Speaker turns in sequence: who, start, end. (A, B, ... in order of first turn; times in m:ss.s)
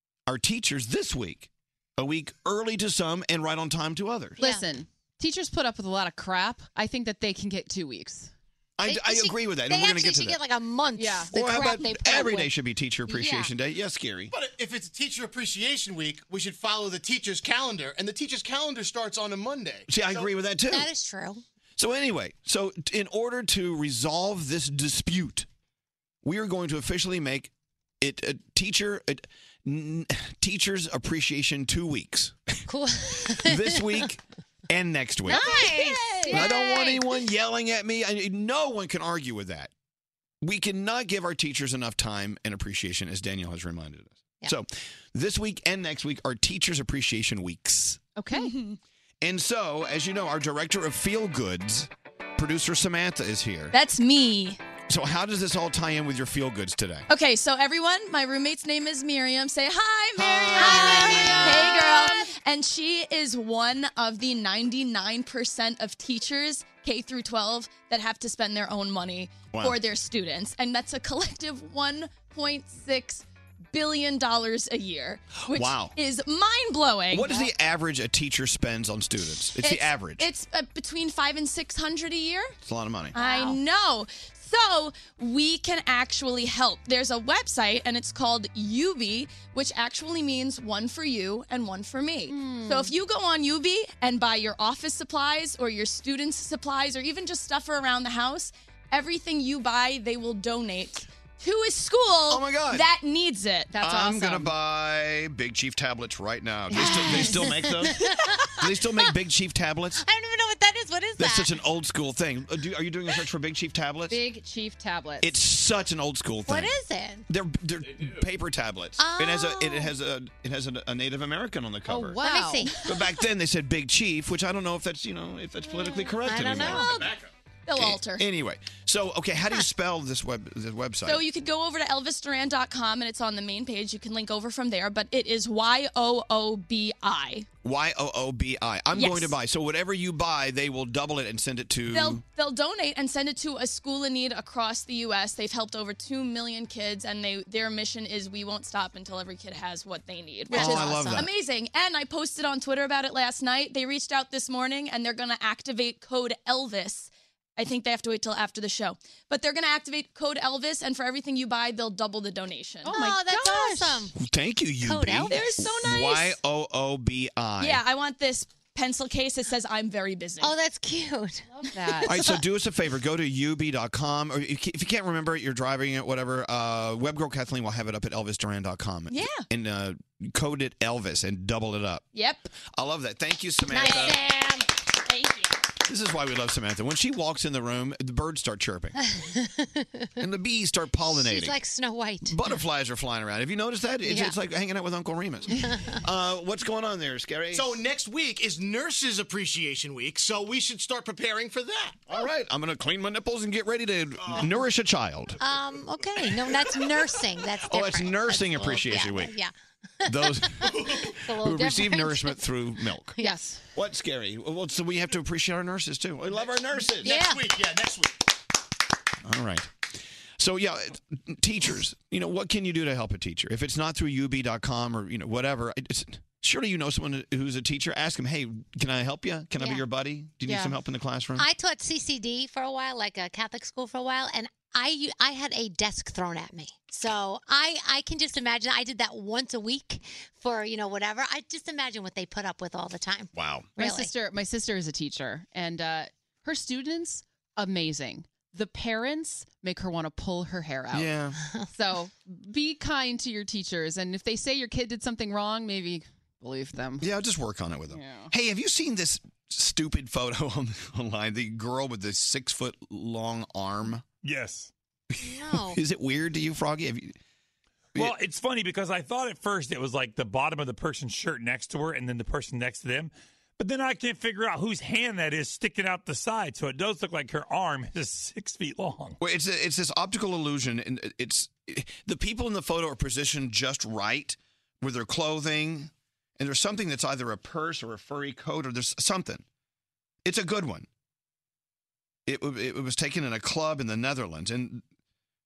0:00.3-0:04.4 A
0:04.4-0:04.7 B
0:04.4-0:08.3 C
0:08.8-0:10.4 A
0:08.8-0:12.5 B
0:11.0-0:11.3 C
0:11.3-0:14.3 A
0:13.1-0:13.5 B
0:14.3-0:20.4 D
0:19.9-0:20.9 A
0:20.7-0:21.4 B
0:21.8-0:25.5 A
0:26.2-0:32.6 A
0:32.7-0:34.1 B
0:33.2-0:35.8 A
0:35.3-0:37.2 B
0:35.4-0:36.4 C
0:36.3-0:39.7 A
0:40.4-0:48.0 A
0:48.2-0:48.6 C
0:49.2-0:53.8 A
0:53.7-0:54.6 E
0:54.9-0:57.1 A
0:57.1-1:17.4 E
1:00.2-1:01.8 A
1:00.5-1:02.1 B
1:09.5-1:09.8 A
1:15.5-1:16.0 A
1:17.1-1:20.3 A
1:19.6-1:22.5 E
1:22.6-1:23.2 A
1:23.2-1:43.7 E
1:23.2-1:23.6 B
1:32.3-1:32.9 C
1:42.3-1:42.9 A
1:43.7-1:44.5 C
1:43.8-1:50.0 A
1:46.7-1:47.5 C
1:46.8-1:49.1 B
1:50.0-1:51.6 B
1:51.2-1:54.2 A
1:54.1-1:55.4 C
1:55.2-1:56.7 A
1:56.5-1:57.3 B
1:57.3-2:02.2 A
1:59.0-1:59.9 B
2:01.9-2:02.8 C
2:02.2-2:02.9 B
2:02.8-2:07.1 A
2:06.1-2:07.1 B
2:07.7-2:08.2 E
2:07.7-2:11.2 A
2:11.0-2:17.5 E
2:17.6-2:22.2 A
2:18.9-2:19.4 E
2:21.9-2:43.0 E
2:30.5-2:31.3 B
2:30.5-2:31.3 A
2:42.8-2:44.1 C
2:42.9-2:44.2 B
2:44.2-2:47.8 A
2:44.8-2:45.5 B
2:45.3-2:46.4 E
2:47.6-2:50.6 E
2:50.4-2:51.6 B
2:51.7-2:52.3 C
2:52.0-3:04.2 A
2:59.1-2:59.4 E
3:02.1-3:02.4 E
3:03.7-3:04.7 B
3:05.9-3:09.0 A
3:09.0-3:10.1 B
3:10.2-3:11.6 A
3:11.1-3:12.4 B
3:12.2-3:17.8 A
3:14.0-3:14.4 B
3:15.5-3:16.0 B
3:17.5-3:22.1 D
3:22.1-3:25.4 A
3:25.4-3:32.4 B
3:27.7-3:29.4 A
3:30.1-3:33.2 A
3:33.2-3:33.4 B
3:33.2-3:33.6 C
3:33.8-3:37.3 A
3:36.3-3:38.2 D
3:37.0-3:37.5 B
3:39.2-3:51.5 A
3:49.6-3:49.8 B
3:50.4-3:50.7 C
3:51.4-4:04.1 B
4:03.4-4:03.7 A
4:03.8-4:11.1 C
4:10.9-4:11.4 A
4:11.4-4:11.7 B
4:11.7-4:17.0 C
4:17.0-4:24.0 A
4:17.9-4:18.3 C
4:24.2-4:24.7 F
4:25.2-4:27.2 A
4:25.2-4:25.8 B
4:28.0-4:39.2 F
4:39.2-4:49.4 A
4:50.2-4:50.9 A
4:52.3-4:54.8 A